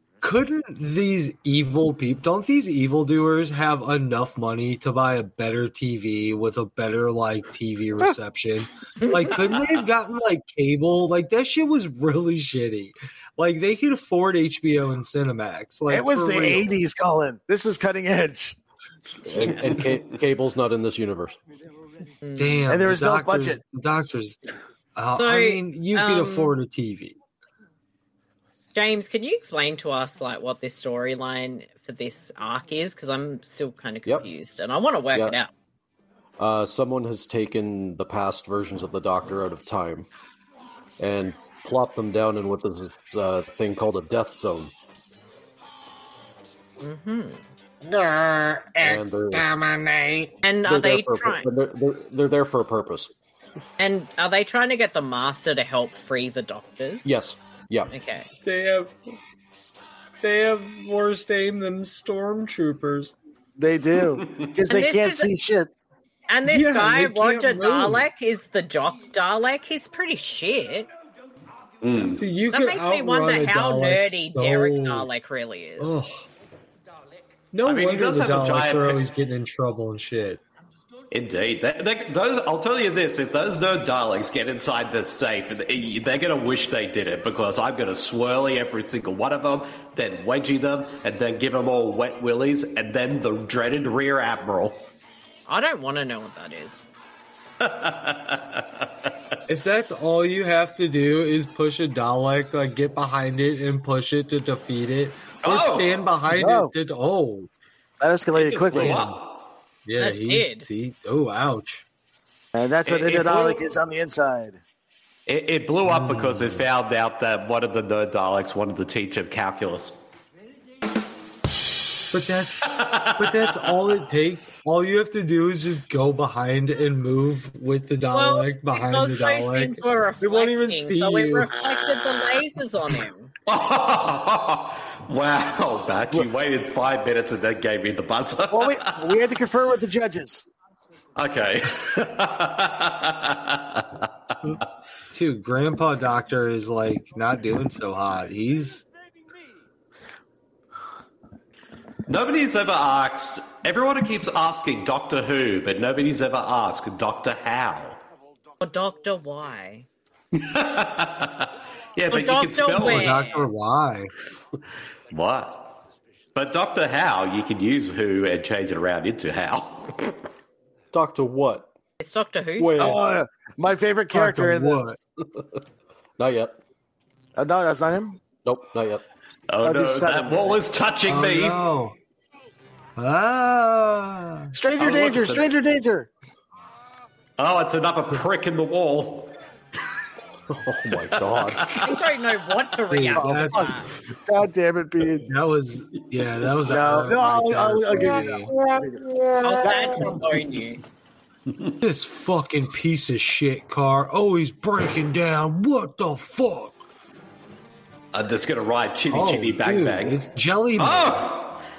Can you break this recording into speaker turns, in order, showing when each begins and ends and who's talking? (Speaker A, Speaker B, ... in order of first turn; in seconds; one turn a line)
Speaker A: 0.2-16.7
Speaker B: 9.0-9.3
Speaker C: 15.9-18.6
Speaker B: 19.2-19.6
Speaker D: 19.2-21.4
Speaker B: 22.2-22.7
Speaker A: 22.4-24.4
Speaker C: 22.7-23.6
Speaker A: 25.0-27.2
Speaker B: 25.1-26.5
Speaker B: 28.7-35.5
Speaker D: 36.4-40.1
Speaker D: 41.0-44.7
Speaker B: 46.8-47.4
Speaker A: 47.9-50.3
Speaker D: 48.8-49.6
Speaker B: 50.4-51.5
Speaker D: 50.6-53.1
Speaker B: 53.8-57.1
Speaker D: 57.0-57.9
Speaker B: 57.9-58.3
Speaker A: 58.4-59.0
Speaker A: 60.2-63.1
Speaker C: 63.6-65.7
Speaker B: 64.7-65.3
Speaker B: 66.3-70.9
Speaker A: 66.5-68.1
Speaker E: 71.8-72.2
Speaker A: 72.1-75.1
Speaker B: 72.5-76.0
Speaker A: 75.8-76.3
Speaker A: 77.5-80.4
Speaker E: 77.6-79.0
Speaker E: 81.1-94.8
Speaker B: 95.5-96.9
Speaker E: 97.6-98.9
Speaker A: 99.5-107.5
Speaker E: 105.4-106.0
Speaker C: 106.3-106.7
Speaker C: 108.0-109.1
Speaker E: 108.5-109.3
Speaker A: 108.7-109.2
Speaker A: 109.8-111.8
Speaker B: 110.0-110.7
Speaker C: 112.5-114.6
Speaker E: 112.8-113.6
Speaker E: 115.3-120.0
Speaker A: 115.8-116.7
Speaker A: 122.1-131.5
Speaker E: 122.7-123.7
Speaker B: 128.1-133.3
Speaker E: 133.5-139.0
Speaker C: 138.5-140.5
Speaker E: 141.2-144.1
Speaker A: 145.1-148.8
Speaker E: 152.1-158.0
Speaker B: 158.6-159.9
Speaker E: 160.3-163.2
Speaker B: 162.1-163.5
Speaker A: 162.8-164.1
Speaker E: 165.1-165.8
Speaker E: 166.3-170.1
Speaker D: 170.9-171.7
Speaker B: 172.0-173.0
Speaker D: 172.6-173.0
Speaker C: 172.8-174.9
Speaker A: 174.1-175.0
Speaker D: 175.2-175.5
Speaker D: 176.2-176.6
Speaker C: 177.4-178.2
Speaker D: 178.4-179.0
Speaker E: 179.5-181.6
Speaker C: 179.6-180.6
Speaker A: 181.1-182.0
Speaker A: 183.0-184.6
Speaker C: 184.5-186.1
Speaker E: 184.8-185.5
Speaker E: 187.4-189.3
Speaker D: 190.5-191.8
Speaker E: 191.4-191.7
Speaker B: 191.8-193.9
Speaker A: 192.9-193.8
Speaker C: 193.2-195.3
Speaker A: 195.2-198.5
Speaker C: 196.7-200.2
Speaker B: 199.4-200.8
Speaker A: 201.8-206.8
Speaker E: 208.1-210.2
Speaker A: 209.1-211.3
Speaker E: 210.8-211.6